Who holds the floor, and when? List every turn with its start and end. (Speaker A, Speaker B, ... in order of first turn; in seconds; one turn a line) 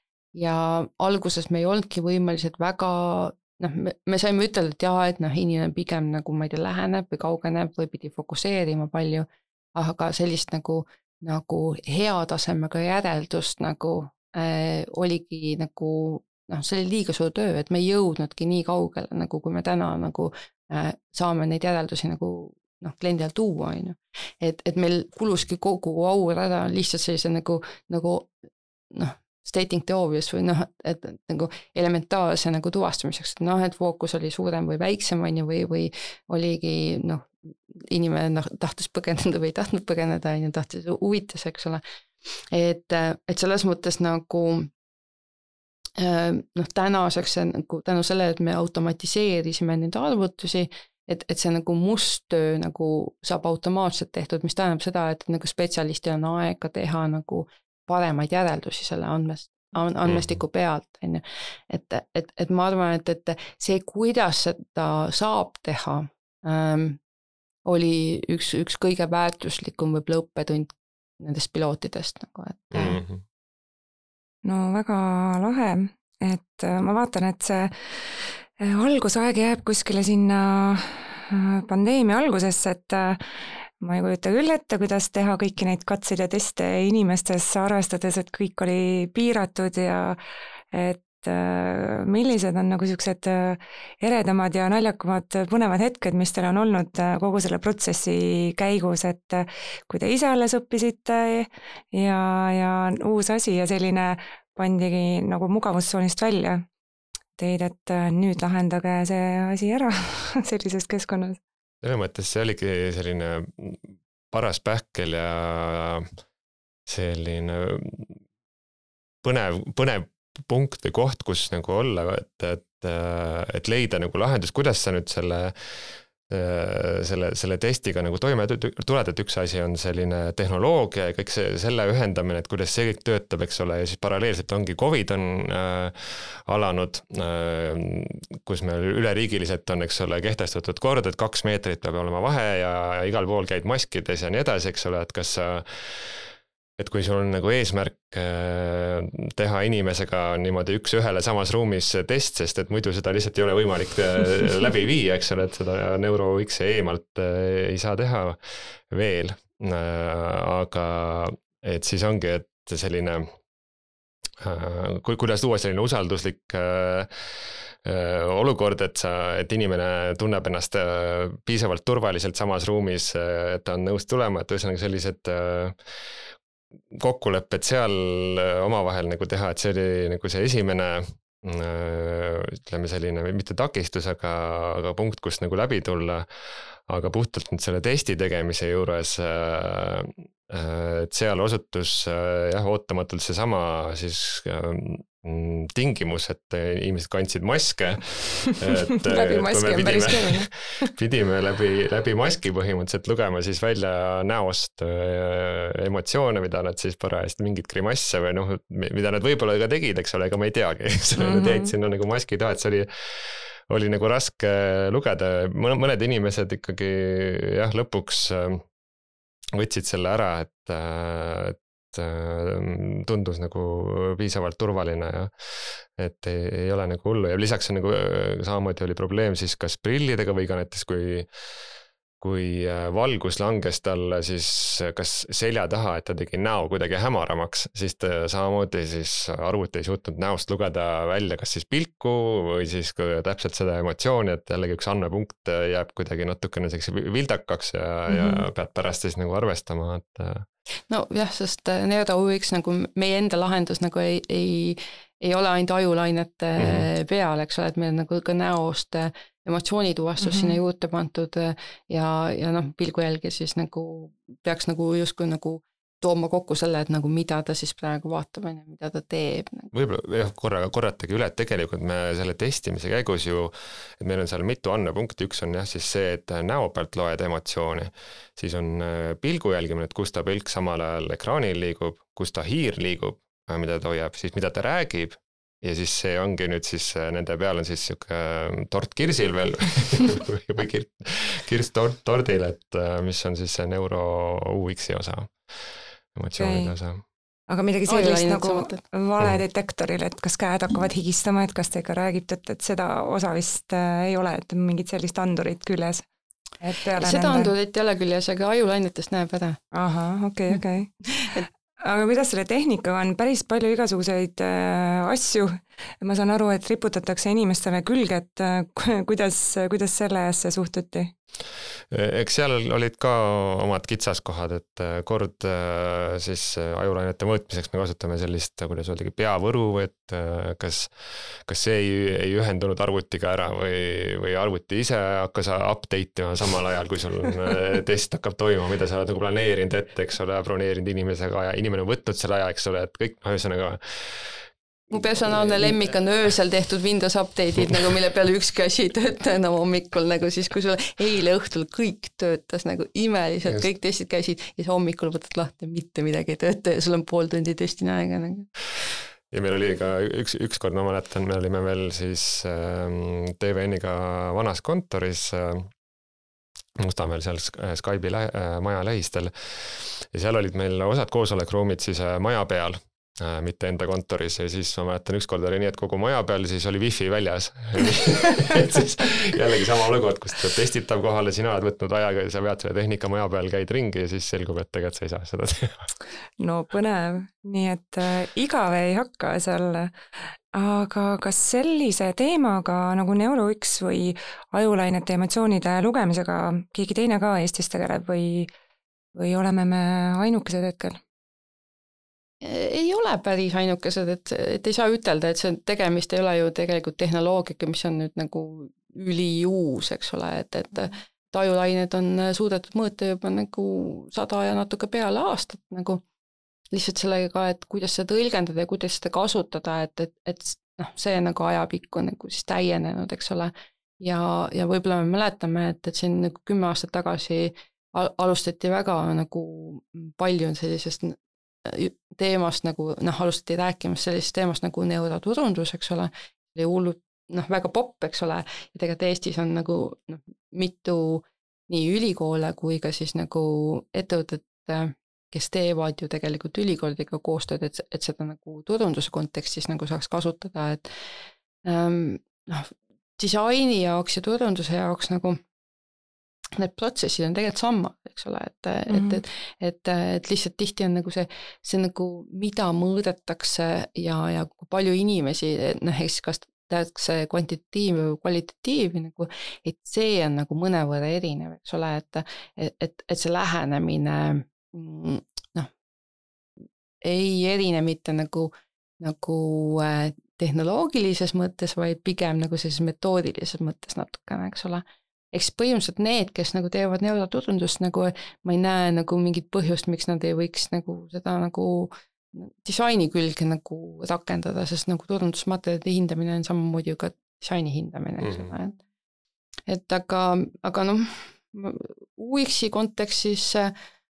Speaker A: 0.3-28.3
Speaker A: 28.9-41.8
Speaker A: 42.5-44.7
Speaker A: 46.0-67.0
Speaker A: 67.7-73.0
Speaker B: 72.7-73.2
Speaker C: 74.4-83.2
Speaker C: 83.8-90.2
Speaker C: 90.7-106.7
Speaker C: 107.4-111.4
Speaker B: 111.8-116.1
Speaker B: 116.9-118.2
Speaker B: 119.2-125.8
Speaker B: 126.3-146.2
Speaker B: 146.8-163.3
Speaker B: 164.4-175.8
Speaker B: 176.9-186.3
Speaker B: 186.9-218.7
Speaker C: 199.1-200.9
Speaker C: 211.2-211.7
Speaker B: 219.5-231.3
Speaker B: 232.2-250.4
Speaker C: 248.1-248.4
Speaker A: 250.9-269.7
Speaker B: 256.6-256.9
Speaker C: 260.2-260.6
Speaker B: 269.7-297.0
Speaker C: 296.4-296.8
Speaker C: 297.5-306.1
Speaker A: 297.9-298.8
Speaker C: 306.6-307.5
Speaker A: 307.0-309.6
Speaker C: 309.7-321.1
Speaker B: 321.9-344.4
Speaker A: 344.9-358.5
Speaker B: 345.3-345.7
Speaker B: 359.3-365.7
Speaker B: 366.8-385.9
Speaker C: 386.4-389.9
Speaker C: 390.5-398.5
Speaker C: 399.1-401.0
Speaker A: 402.4-416.0
Speaker A: 416.7-450.9
Speaker A: 451.7-455.4
Speaker A: 456.6-475.7
Speaker C: 458.9-459.2
Speaker A: 477.0-498.8
Speaker B: 498.2-498.5
Speaker A: 499.7-503.7